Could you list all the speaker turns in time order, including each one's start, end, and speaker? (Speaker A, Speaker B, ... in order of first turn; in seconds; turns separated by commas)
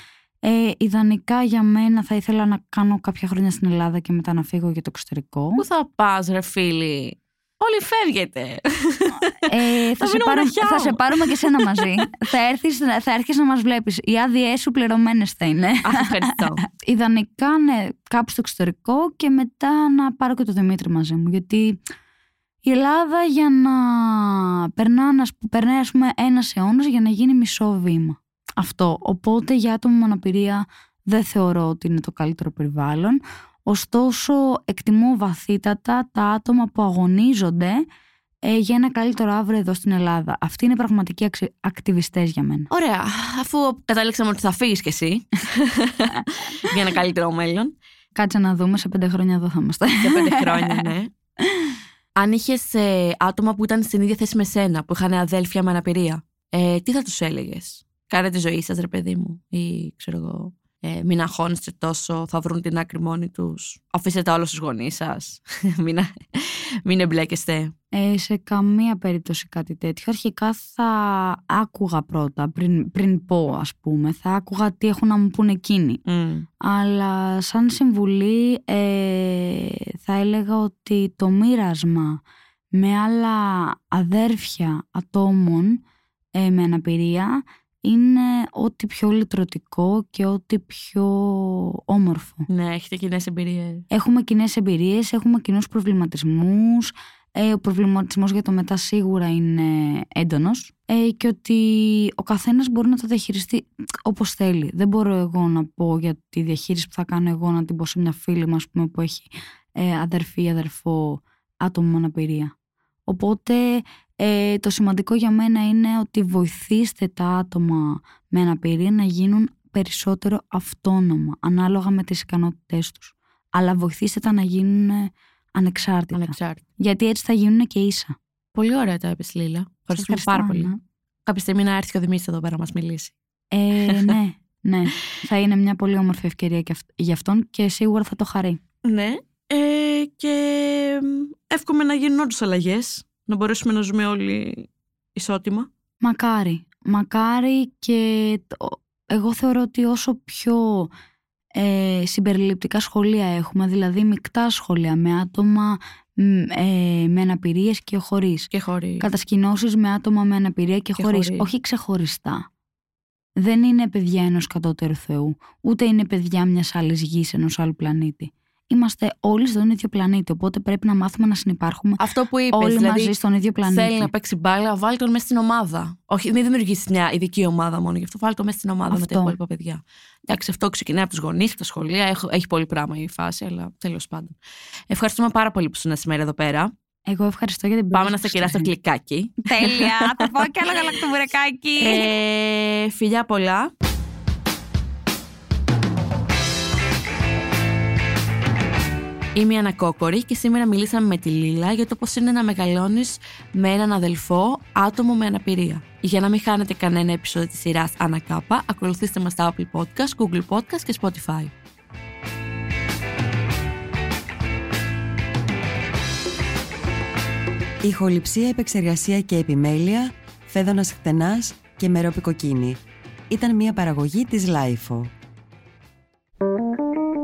Speaker A: 0.4-5.6, Speaker B: 5.6-12.0, Speaker A: 9.5-21.8, Speaker B: 15.8-16.6, Speaker A: 22.6-37.8, Speaker A: 38.5-42.7, Speaker B: 42.7-47.7, Speaker A: 48.1-50.9, Speaker B: 50.0-51.1, Speaker B: 52.1-67.7, Speaker A: 67.9-76.0, Speaker B: 76.0-76.5, Speaker A: 76.6-82.2, Speaker A: 82.7-85.8, Speaker A: 86.3-92.5, Speaker B: 92.5-93.8, Speaker A: 93.9-112.5, Speaker A: 113.1-128.2, Speaker B: 126.1-126.6, Speaker B: 128.5-130.7, Speaker A: 129.9-130.8, Speaker B: 131.2-133.1, Speaker A: 133.5-138.6, Speaker B: 133.8-134.2, Speaker B: 138.8-145.7, Speaker A: 146.0-150.9, Speaker A: 151.6-158.5, Speaker B: 158.5-159.1, Speaker A: 159.0-162.4, Speaker B: 161.0-161.5, Speaker A: 163.4-174.1, Speaker B: 172.0-184.4, Speaker A: 178.9-179.3, Speaker B: 184.9-186.7, Speaker A: 187.1-188.7, Speaker B: 187.9-190.3, Speaker A: 189.4-192.2, Speaker B: 191.8-193.7, Speaker B: 199.3-211.5, Speaker C: 217.8-225.1